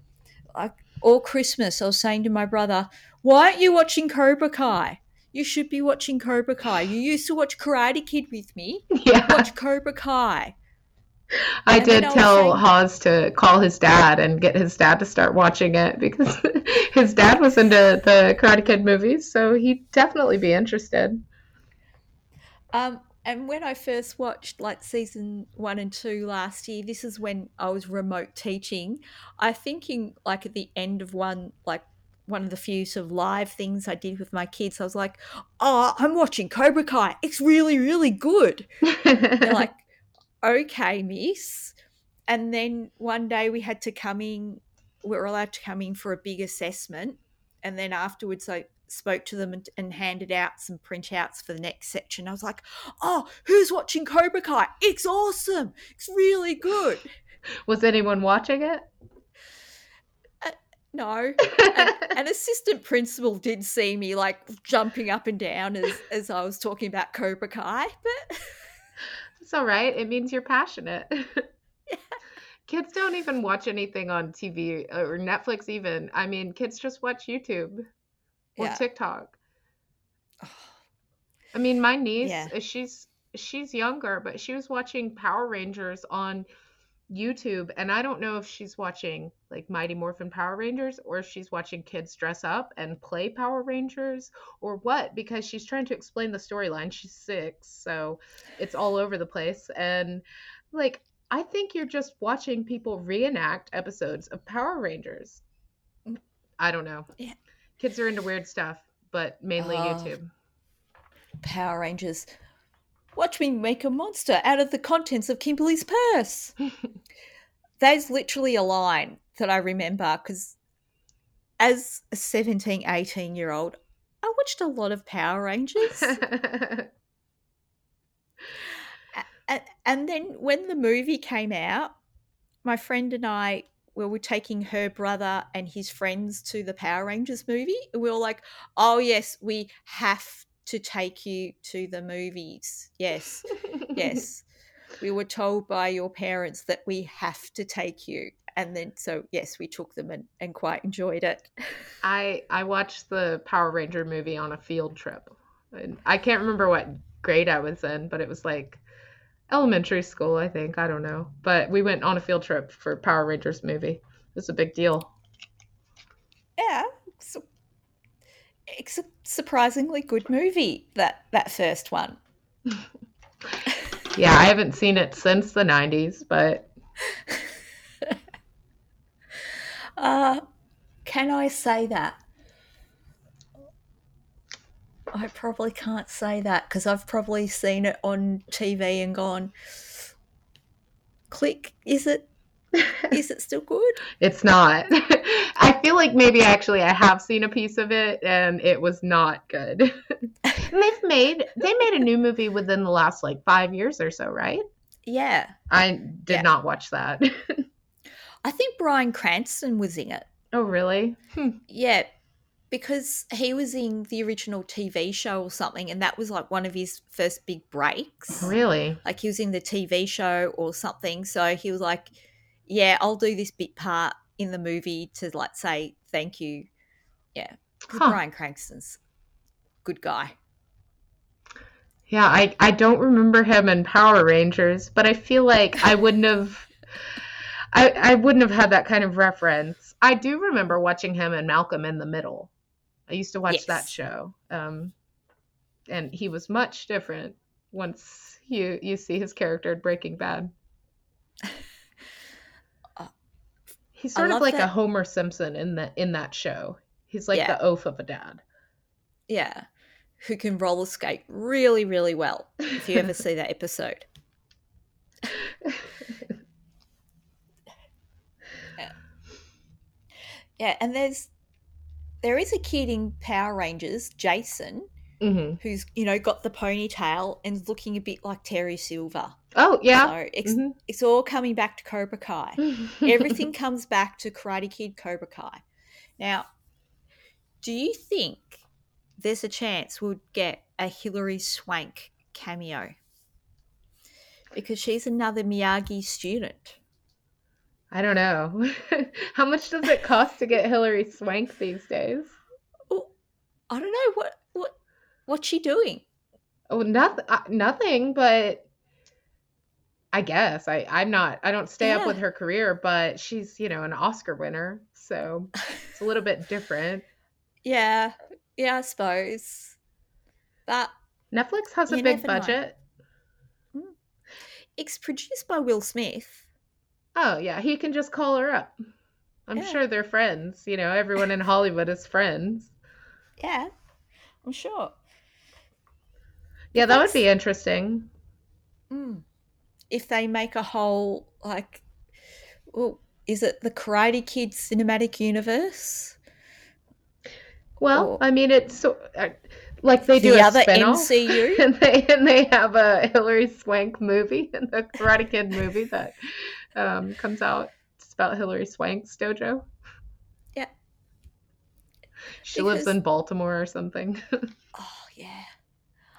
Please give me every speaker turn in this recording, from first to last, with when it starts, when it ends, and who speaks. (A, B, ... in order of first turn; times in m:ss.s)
0:00.5-0:10.5 A
0:08.9-0:09.5 B
0:11.6-0:21.2 B
0:11.7-0:12.6 A
0:22.7-0:38.6 A
0:38.9-0:39.6 B
0:39.4-0:39.8 A
0:40.4-0:41.7 A
0:42.3-0:57.1 A
0:57.7-0:58.9 B
1:00.4-1:08.6 A
1:01.5-1:02.1 B
1:09.4-1:11.5 B
1:11.9-1:12.2 A
1:12.7-1:17.8 B
1:18.6-1:18.8 A
1:18.6-1:19.4 B
1:20.4-1:20.8 A
1:21.5-1:26.4 B
1:22.2-1:22.5 A
1:27.1-1:45.4 B
1:46.6-1:47.1 B
1:47.8-1:50.3 B
1:49.6-1:50.1 A
1:51.4-1:52.3 A
1:53.1-1:56.5 A
1:57.8-2:00.6 A
2:01.6-2:06.2 A
2:05.9-2:06.9 B
2:09.1-2:12.0 A
2:12.6-2:24.4 A
2:25.0-2:31.8 A
2:32.0-2:38.8 B
2:39.5-2:45.1 B
2:46.6-2:47.4 A
2:48.7-2:52.2 A
2:54.1-2:56.7 B
2:57.1-2:57.5 A
2:59.3-3:00.4 A
3:01.0-3:02.2 A
3:05.1-3:10.1 A
3:11.3-3:12.3 A
3:13.1-3:14.0 A
3:14.2-3:24.6 B
3:25.0-3:25.5 A
3:25.7-3:27.6 B
3:28.4-3:30.3 A
3:30.5-3:31.6 B
3:31.7-3:32.1 A
3:32.7-3:38.5 A
3:38.4-3:39.0 B
3:39.0-3:42.1 A
3:42.7-3:46.7 A
3:47.3-3:49.0 A
3:47.9-3:48.2 B
3:49.8-3:50.3 A
3:52.1-3:56.7 B
3:57.7-4:02.5 B
4:03.1-4:04.9 B
4:03.5-4:03.9 A
4:05.9-4:10.5 B
4:14.0-4:18.4 B
4:14.2-4:14.7 A
4:19.3-4:19.7 A
4:20.2-4:24.1 A
4:25.4-4:26.1 B
4:30.6-4:31.3 A
4:32.2-4:34.9 A
4:35.2-4:35.6 B
4:35.6-4:39.4 A
4:39.5-4:40.7 B
4:39.9-4:45.6 A
4:42.6-4:43.1 B
4:46.2-4:46.5 A
4:47.6-4:48.6 A
4:49.2-4:52.9 A
4:54.5-4:56.8 A
4:57.9-5:02.4 B
5:03.7-5:04.7 A
5:05.3-5:06.0 A
5:06.7-5:08.6 B
5:10.1-5:17.0 B
5:11.8-5:12.2 A
5:17.6-5:19.8 A
5:20.7-5:20.9 A
5:21.3-5:22.8 B
5:21.9-5:22.6 A
5:24.7-5:26.4 A
5:27.2-5:28.8 B
5:29.5-5:32.7 B
5:33.4-5:33.7 A
5:34.4-5:35.0 A
5:36.7-5:38.1 B
5:36.8-5:37.2 A
5:38.9-5:39.2 A
5:39.9-5:41.8 A
5:42.7-5:46.2 A
5:47.8-5:59.7 B
5:47.9-5:48.2 A
5:50.2-5:51.6 A
6:02.4-6:04.4 B
6:02.5-6:02.9 A
6:04.7-6:05.5 A